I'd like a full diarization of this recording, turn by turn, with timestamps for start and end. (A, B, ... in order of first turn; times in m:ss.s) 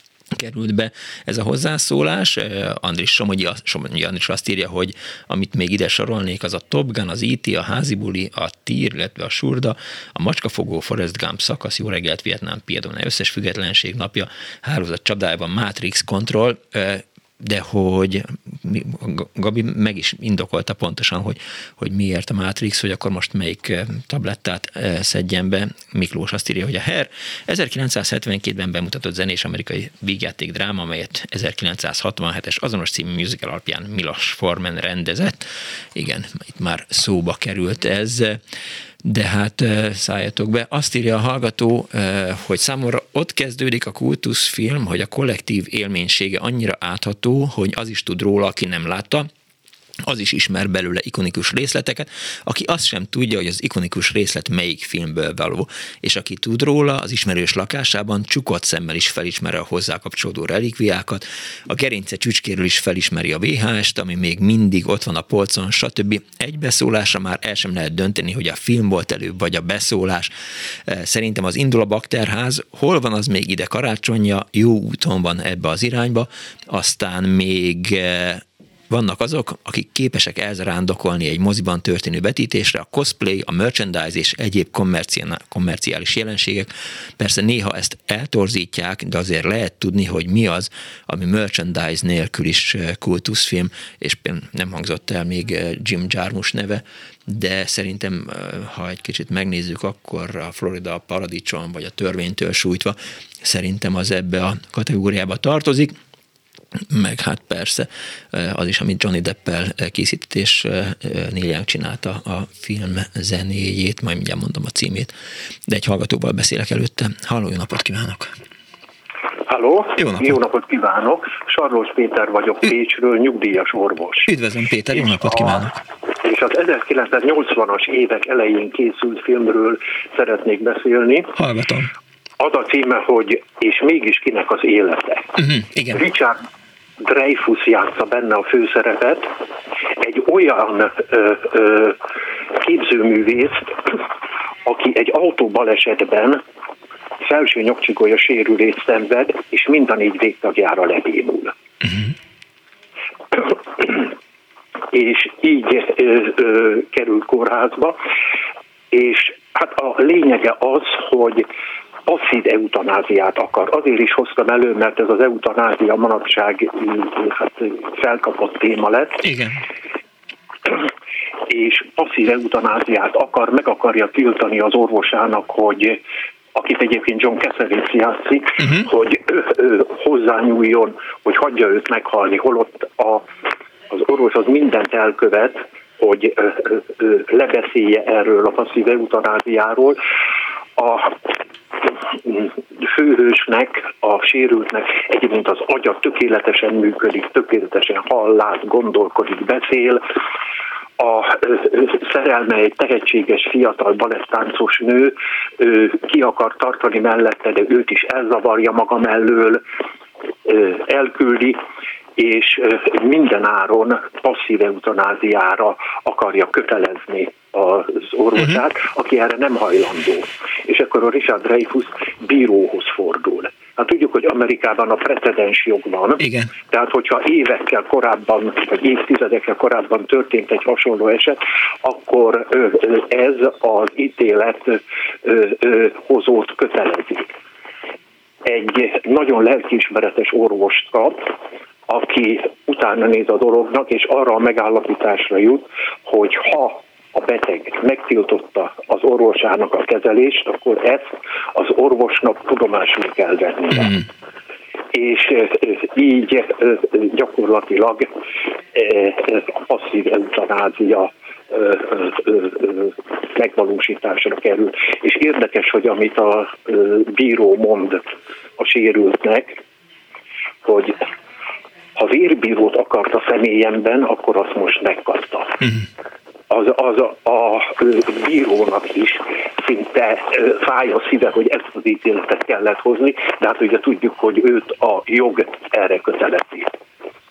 0:00.3-0:38.4 A
0:39.0-0:49.3 A
0:50.1-1:45.9 A
1:46.9-1:55.1 A
1:55.7-1:58.3 A
1:59.5-2:04.3 B
2:00.0-2:00.4 A
2:04.3-2:05.8 A
2:05.0-2:05.7 B
2:06.2-2:11.3 B
2:11.4-2:11.9 A
2:12.4-2:15.3 B
2:15.4-2:16.0 A
2:16.0-2:16.3 B
2:17.1-2:19.3 B
2:20.1-2:21.9 B
2:22.7-2:23.5 B
2:24.7-2:26.4 B
2:27.3-2:31.5 B
2:35.0-2:38.0 B
2:38.9-2:41.4 B
2:42.1-2:49.2 B
2:49.2-2:49.6 A
2:51.5-2:56.0 B
2:56.6-3:03.2 B
2:58.6-2:58.9 A
3:03.9-3:10.0 B
3:10.8-3:11.1 B
3:12.9-3:20.0 B
3:21.0-3:29.6 B
3:30.5-3:31.6 B
3:32.2-3:46.2 B
3:46.2-3:46.5 A
3:46.7-3:54.7 B
3:55.3-3:57.3 B
3:58.5-4:01.3 B
4:01.9-4:14.0 B
4:15.0-4:18.0 B
4:18.8-4:28.0 B
4:28.6-4:29.6 B
4:30.6-4:30.9 B
4:32.0-4:35.6 B
4:36.5-4:46.7 B